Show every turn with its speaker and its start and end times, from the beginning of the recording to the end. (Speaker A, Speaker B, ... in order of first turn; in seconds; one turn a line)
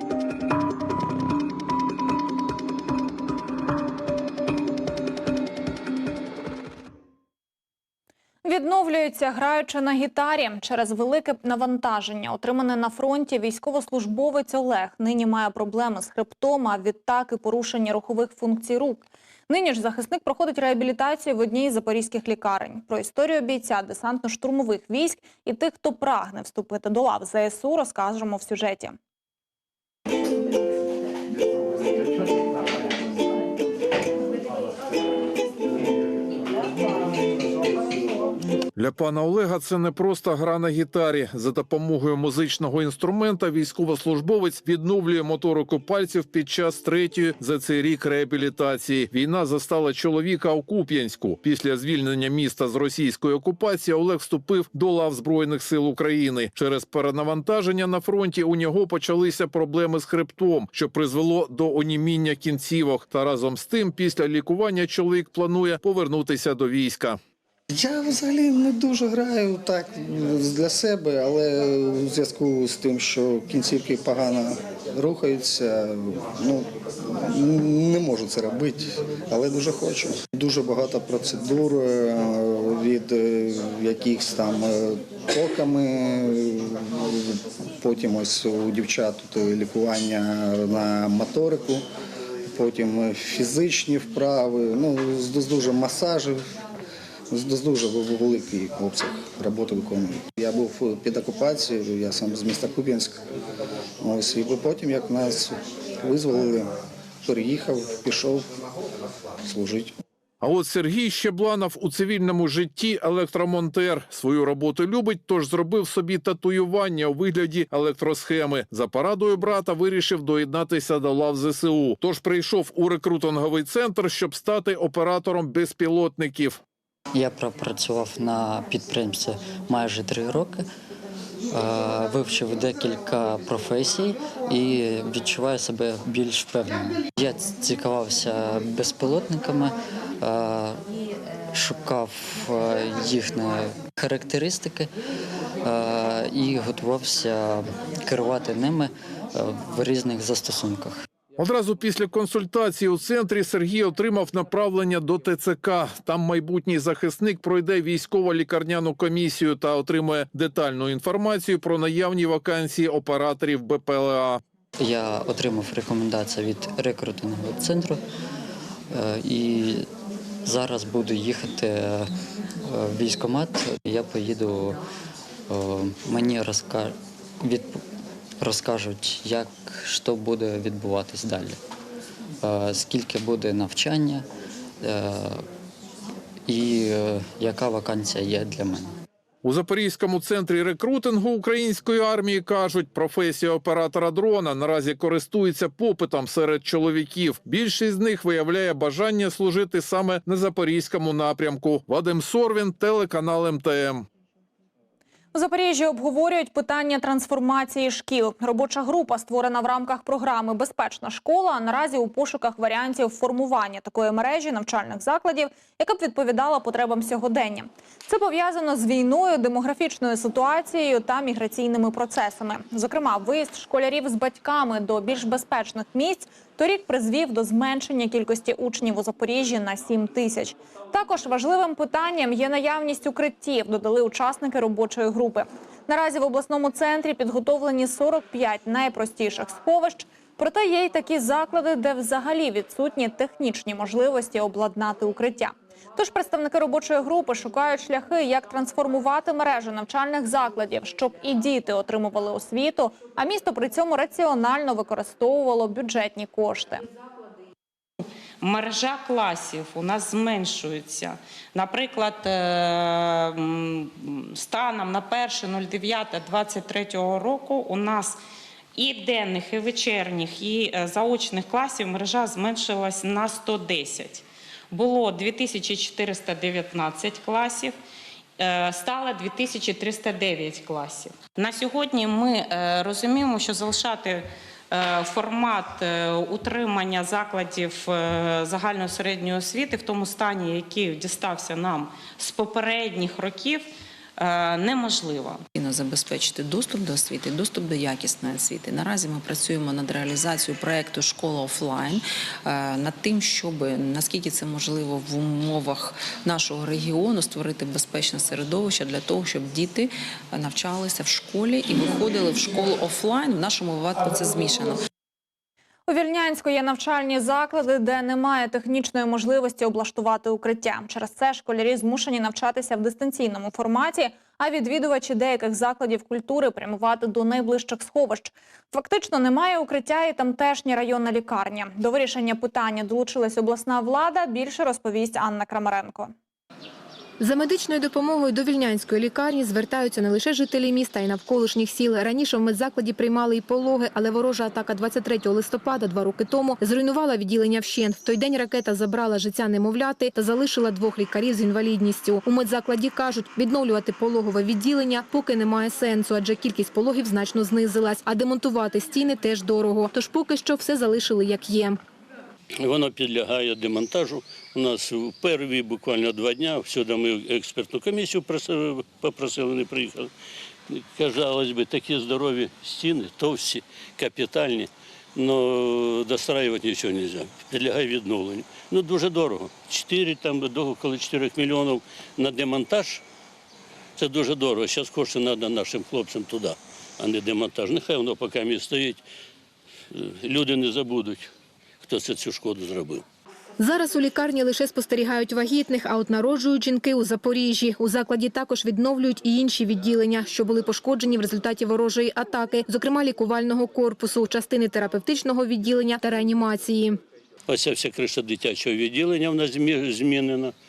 Speaker A: 8.5-28.9
Speaker B: 38.8-67.2
Speaker C: 67.7-91.9
Speaker C: 92.5-96.4
Speaker C: 97.3-103.2
Speaker C: 104.0-106.7
Speaker C: 107.2-108.5
Speaker C: 109.4-109.9
Speaker B: 110.4-126.6
Speaker D: 127.1-130.7
Speaker D: 131.5-140.8
Speaker D: 141.5-144.9
Speaker D: 145.6-150.9
Speaker B: 151.4-164.4
Speaker D: 164.8-168.0
Speaker D: 168.9-169.9
Speaker D: 170.5-172.1
Speaker D: 172.7-174.8
Speaker D: 175.5-177.8
Speaker D: 178.4-181.6
Speaker D: 182.4-184.2
Speaker D: 184.8-185.4
Speaker D: 186.5-188.9
Speaker B: 189.4-204.1
Speaker A: 205.3-256.8
Speaker E: 258.4-268.2
Speaker E: 268.8-277.8
Speaker E: 278.4-293.6
Speaker E: 294.2-295.4
Speaker F: 295.6-314.8
Speaker A: 315.9-336.1
Speaker G: 337.2-361.8
Speaker H: 362.6-370.1
Speaker H: 370.7-383.0
Speaker H: 384.0-389.0
Speaker H: 389.9-391.3
Speaker H: 391.8-393.0
Speaker G: 393.6-407.0
Speaker H: 407.5-410.5